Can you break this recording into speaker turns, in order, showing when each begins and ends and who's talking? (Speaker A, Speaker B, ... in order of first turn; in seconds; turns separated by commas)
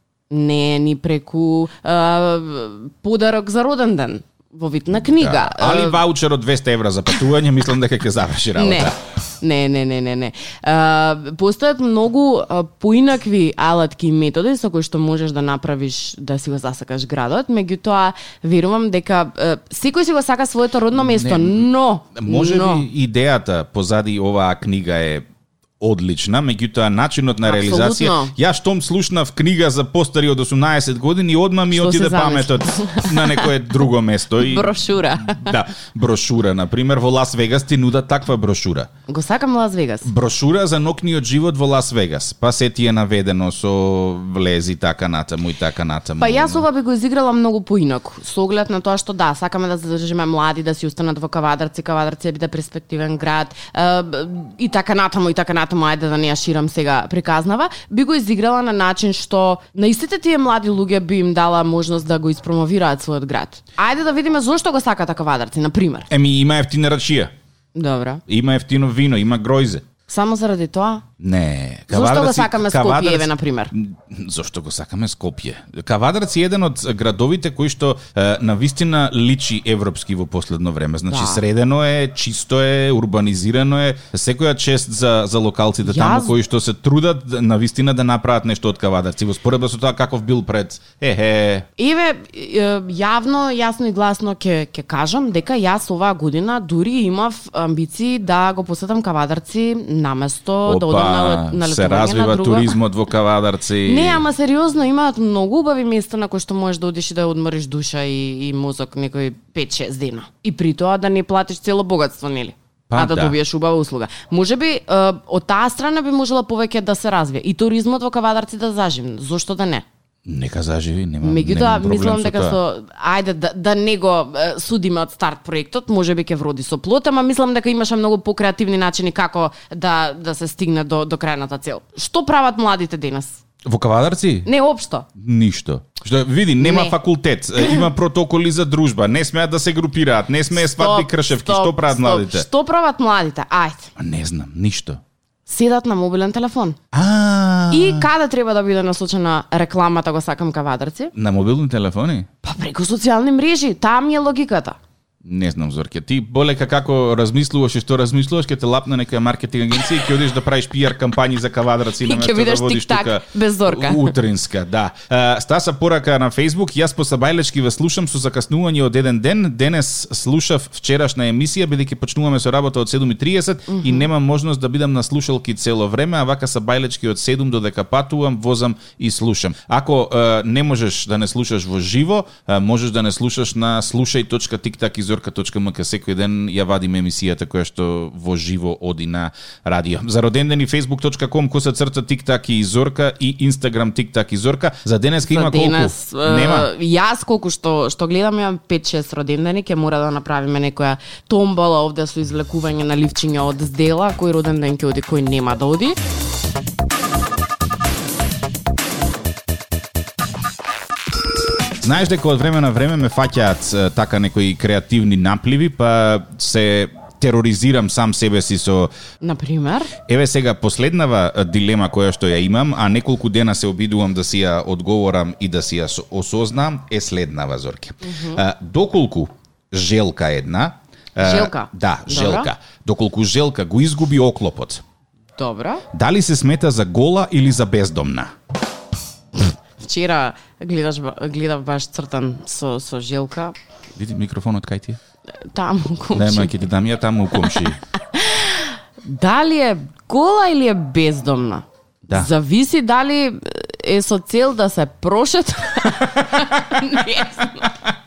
Speaker A: 0.3-6.0, Speaker B: 5.0-9.0, Speaker A: 8.6-22.9, Speaker B: 20.9-25.2, Speaker B: 25.8-38.9, Speaker A: 27.4-28.3, Speaker A: 31.7-33.5, Speaker A: 34.4-35.5, Speaker A: 39.1-40.1, Speaker B: 40.0-46.6, Speaker A: 46.2-66.1, Speaker B: 66.1-67.3, Speaker A: 67.8-68.2, Speaker B: 68.3-69.8, Speaker A: 70.1-71.0, Speaker B: 71.2-91.7, Speaker A: 71.9-73.7, Speaker A: 81.1-81.4, Speaker A: 85.8-86.3, Speaker A: 91.8-102.8, Speaker B: 100.7-104.3, Speaker A: 103.9-119.8, Speaker B: 112.9-113.4, Speaker B: 120.3-122.6, Speaker A: 121.2-133.4, Speaker B: 133.7-134.5, Speaker A: 134.4-135.1, Speaker B: 135.2-142.5, Speaker A: 136.6-136.9, Speaker A: 137.6-137.8, Speaker A: 140.5-143.9, Speaker B: 144.0-145.0, Speaker A: 145.5-146.8, Speaker B: 146.9-148.1, Speaker A: 147.7-151.1, Speaker B: 151.2-152.3, Speaker A: 152.4-154.8, Speaker B: 155.2-196.7, Speaker A: 162.0-164.2, Speaker A: 173.7-174.1, Speaker A: 195.3-206.0, Speaker B: 211.8-218.9, Speaker A: 219.2-219.9, Speaker B: 220.1-234.8, Speaker A: 228.0-228.4, Speaker A: 231.2-232.5, Speaker A: 235.4-235.8, Speaker B: 235.9-238.3, Speaker A: 239.8-243.6, Speaker B: 244.0-245.0, Speaker A: 245.5-246.6, Speaker B: 246.1-247.8, Speaker A: 248.1-257.8